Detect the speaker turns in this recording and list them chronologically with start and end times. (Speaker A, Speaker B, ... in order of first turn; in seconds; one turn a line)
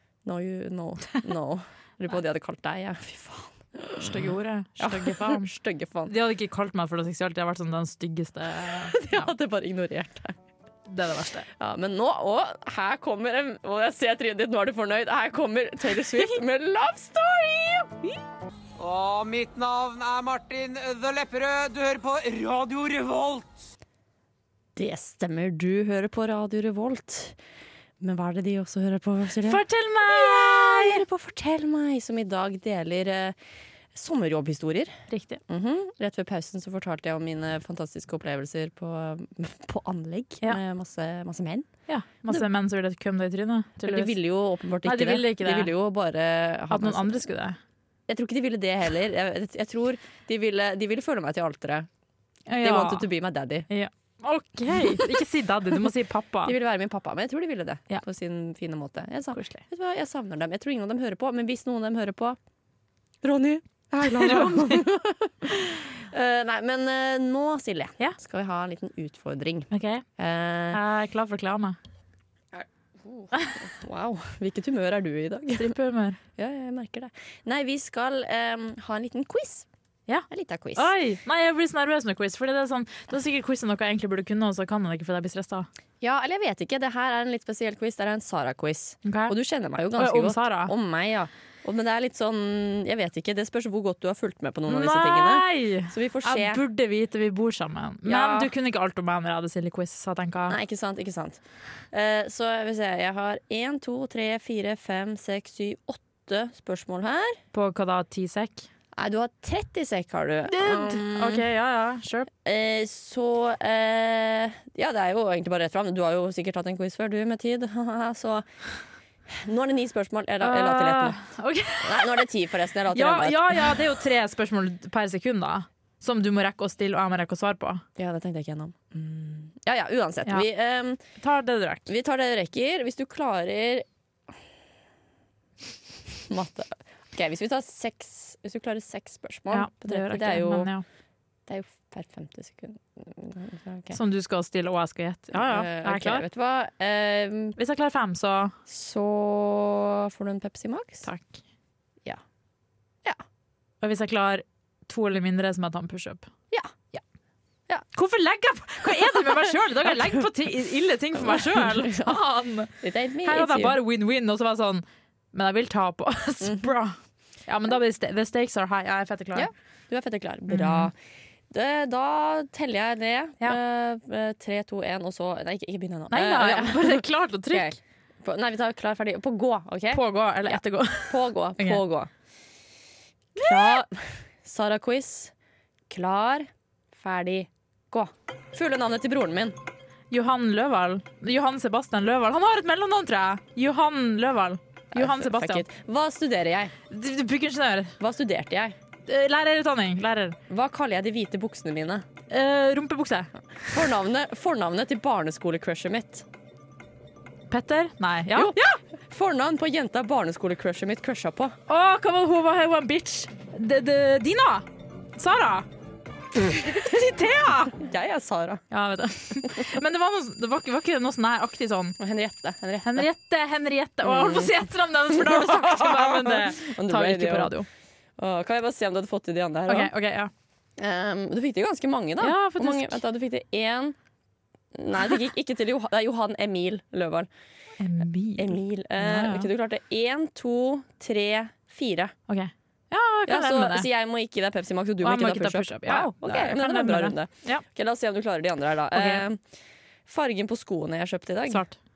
Speaker A: 0.2-6.1
Speaker B: 4.0-5.5
Speaker B: 6.1-9.3
Speaker A: 8.8-10.3
Speaker B: 10.9-11.5
Speaker A: 11.6-18.1
Speaker C: 18.8-23.7
Speaker A: 24.8-27.4
Speaker A: 28.0-33.4
Speaker B: 29.4-31.0
Speaker A: 33.9-34.9
Speaker B: 35.1-35.4
Speaker A: 35.5-41.7
Speaker B: 41.9-44.1
Speaker A: 43.8-47.2
Speaker B: 44.8-45.7
Speaker B: 46.7-47.6
Speaker A: 48.1-51.9
Speaker B: 52.5-53.1
Speaker A: 52.6-53.7
Speaker B: 53.7-56.5
Speaker A: 54.8-55.2
Speaker A: 56.4-62.4
Speaker B: 59.3-59.6
Speaker A: 63.2-70.8
Speaker B: 64.0-64.8
Speaker B: 69.7-70.0
Speaker B: 70.7-71.8
Speaker A: 72.5-75.7
Speaker B: 75.6-76.2
Speaker A: 76.4-79.7
Speaker B: 80.1-85.7
Speaker A: 80.3-80.9
Speaker A: 86.0-96.6
Speaker B: 89.0-89.3
Speaker B: 90.0-90.7
Speaker B: 94.7-100.6
Speaker A: 98.0-98.5
Speaker A: 100.5-107.4
Speaker B: 107.5-108.7
Speaker A: 108.9-111.4
Speaker B: 110.5-112.3
Speaker A: 112.4-118.5
Speaker A: 119.3-121.2
Speaker B: 120.4-122.2
Speaker A: 121.8-123.8
Speaker B: 122.9-127.8
Speaker A: 128.0-131.0
Speaker B: 131.2-131.9
Speaker A: 131.9-133.8
Speaker A: 136.3-140.7
Speaker B: 139.5-140.8
Speaker A: 141.5-144.0
Speaker B: 143.9-146.2
Speaker A: 145.3-147.6
Speaker B: 147.6-148.5
Speaker A: 148.7-151.1
Speaker B: 151.0-151.4
Speaker B: 153.8-156.3
Speaker B: 157.9-169.5
Speaker A: 161.2-162.2
Speaker A: 162.8-163.8
Speaker A: 166.4-166.7
Speaker A: 169.3-171.0
Speaker B: 170.5-170.9
Speaker A: 171.5-182.1
Speaker B: 176.1-177.7
Speaker B: 179.9-181.8
Speaker A: 183.3-185.3
Speaker B: 183.4-183.7
Speaker A: 185.9-189.6
Speaker B: 190.1-195.7
Speaker A: 194.9-196.7
Speaker B: 196.9-197.9
Speaker A: 198.0-198.8
Speaker B: 199.1-200.4
Speaker A: 200.5-202.1
Speaker B: 202.3-203.3
Speaker A: 203.7-206.2
Speaker B: 207.5-208.6
Speaker A: 208.3-211.6
Speaker B: 211.7-215.7
Speaker B: 216.5-217.8
Speaker A: 217.8-218.6
Speaker B: 218.7-222.0
Speaker A: 222.0-223.1
Speaker B: 222.8-227.7
Speaker A: 224.0-227.5
Speaker A: 228.2-229.9
Speaker B: 229.7-230.3
Speaker A: 230.8-234.0
Speaker B: 232.2-233.0
Speaker A: 234.7-237.3
Speaker B: 237.8-239.5
Speaker A: 238.4-242.1
Speaker B: 242.3-243.9
Speaker A: 243.3-249.4
Speaker B: 245.0-247.6
Speaker B: 248.9-249.2
Speaker A: 250.1-251.6
Speaker B: 251.5-251.8